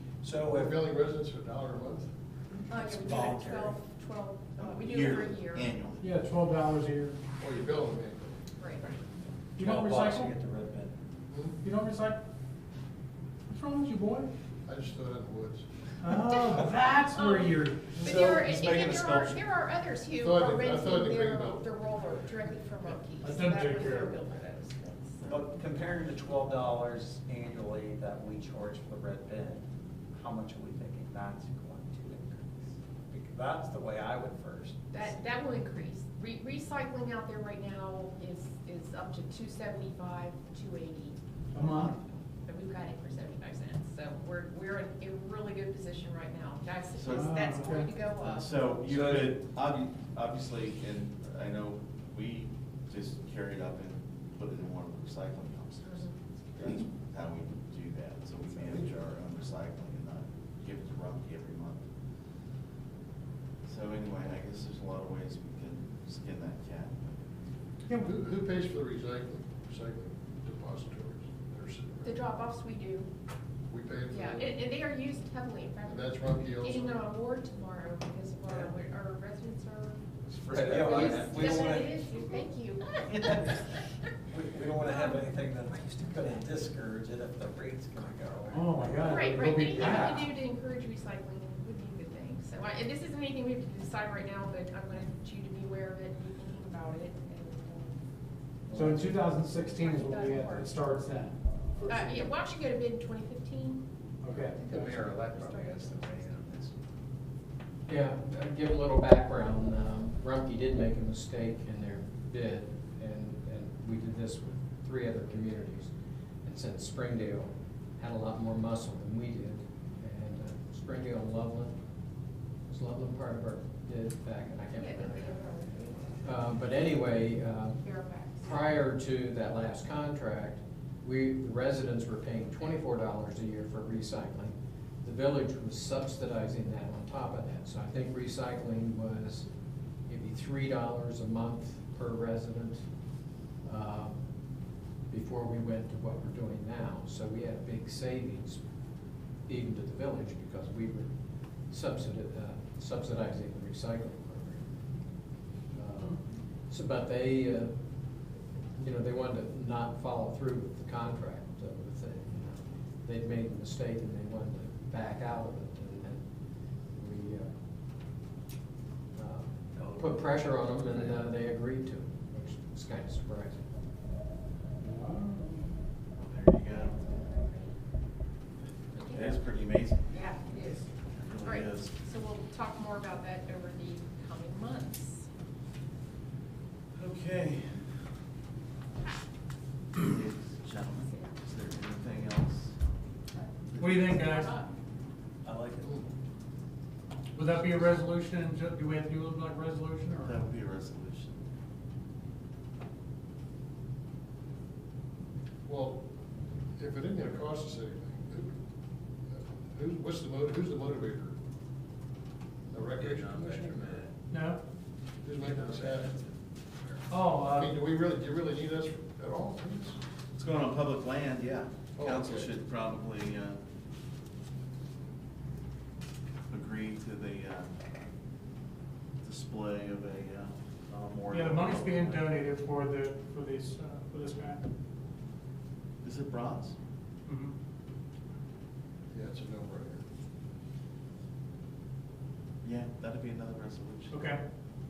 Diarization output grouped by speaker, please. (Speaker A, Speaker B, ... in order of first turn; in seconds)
Speaker A: 0.2-0.8, 2.8-3.8, 9.6-10.9, 17.9-19.4, 25.2-35.1, 48.9-49.4, 78.5-78.7, 80.5-82.0, 83.0-89.2, 195.4-196.1, 213.0-213.5
Speaker B: 0.5-2.1, 7.4-8.4, 11.3-11.6, 14.7-15.7, 20.2-21.7, 68.0-72.2, 73.7-74.6, 75.8-77.0, 205.7-206.0, 206.8-208.5, 209.3-211.3, 212.7-214.0, 215.2-216.2, 217.3-220.0, 222.0-222.5, 239.1-240.0
Speaker C: 2.7-5.7, 8.6-8.8, 16.3-25.2, 34.9-41.2, 41.9-48.5, 55.9-56.1, 72.0-73.1, 74.1-80.0, 80.7-83.6, 89.0-98.0, 99.5-100.8, 101.9-103.8, 124.8-126.2, 127.8-128.6, 176.7-177.8, 178.9-179.4, 180.1-180.8, 181.4-185.3
Speaker D: 4.6-6.1, 41.6-42.0, 47.0-47.5, 48.2-61.8, 63.6-67.2, 176.2-177.0, 179.1-180.1, 181.1-181.9, 186.9-187.9, 190.0-192.8, 193.7-194.1, 200.1-201.4, 220.4-223.6, 226.5-227.7, 229.2-232.2, 236.0-236.8, 242.6-244.1
Speaker E: 6.0-7.2, 9.6-10.3, 11.6-12.2, 13.5-14.3, 16.0-18.2, 23.2-24.1, 41.5-42.0, 47.1-48.0, 67.8-68.2, 88.5-90.3, 98.7-102.3, 104.2-105.0, 174.8-175.7, 193.8-194.6, 197.3-200.4, 214.3-214.6, 217.1-217.8, 231.3-234.6, 237.3-237.5, 244.1-244.4
Speaker F: 80.6-81.3, 104.3-106.7, 213.2-214.1
Speaker G: 107.9-115.9, 116.4-121.8, 122.7-125.4, 126.2-127.8, 128.4-139.5, 140.1-142.8, 143.7-144.2, 145.1-148.6, 149.5-151.1, 151.7-154.6, 155.7-157.7, 158.8-166.2, 166.9-167.5, 169.2-173.6